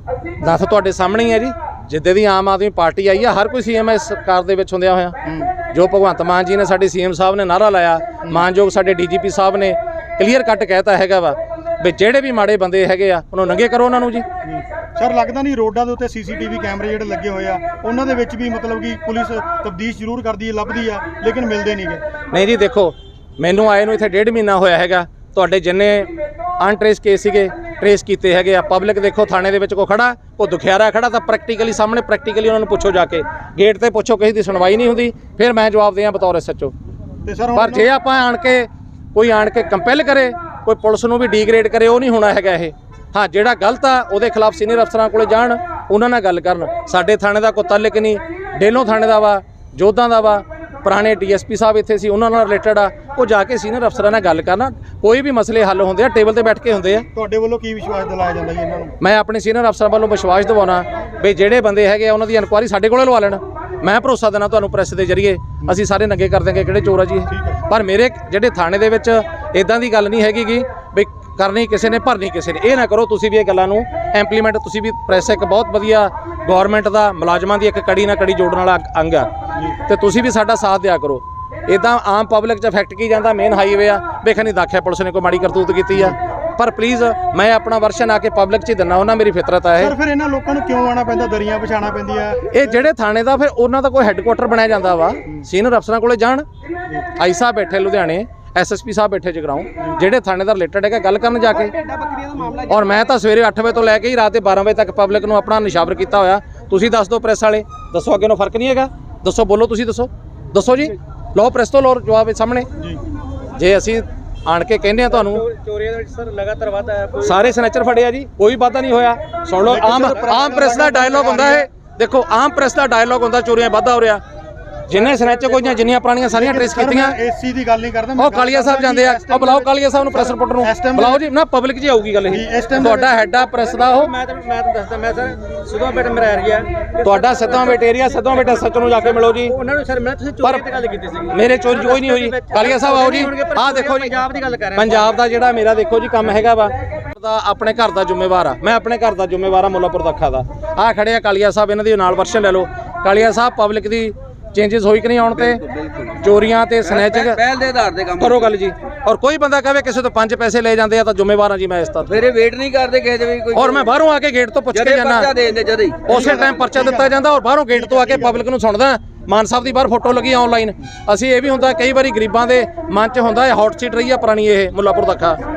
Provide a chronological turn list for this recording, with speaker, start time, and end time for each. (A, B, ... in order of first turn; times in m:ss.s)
0:00.4-0:14.3 A
0:05.3-0:05.5 B
0:14.4-0:22.0 B
0:22.3-0:36.7 A
0:37.2-0:37.9 B
0:37.6-0:57.1 A
0:57.2-0:59.0 B
0:59.0-1:19.3 A
1:07.3-1:07.6 B
1:19.9-1:30.0 A
1:29.8-1:32.8 B
1:32.5-1:36.4 A
1:37.2-1:41.7 A
1:42.1-1:42.5 C
1:42.7-1:52.7 A
1:53.6-1:55.5 A
1:55.5-1:57.3 C
1:57.2-2:04.2 A
1:59.6-2:01.7 B
2:04.9-2:07.2 A
2:06.3-2:11.2 B
2:08.2-2:14.2 A
2:12.3-2:13.2 B
2:14.0-2:17.8 C
2:14.3-2:14.9 D
2:17.0-2:19.6 A
2:19.5-2:24.9 C
2:20.4-2:20.7 A
2:21.3-2:35.6 A
2:35.4-2:38.5 D
2:36.2-2:37.4 A
2:38.2-2:42.2 A
2:42.1-2:43.9 D
2:43.5-2:45.4 A
2:44.7-2:46.2 D
2:46.1-2:47.1 B
2:46.1-2:55.4 A
2:47.7-2:48.4 B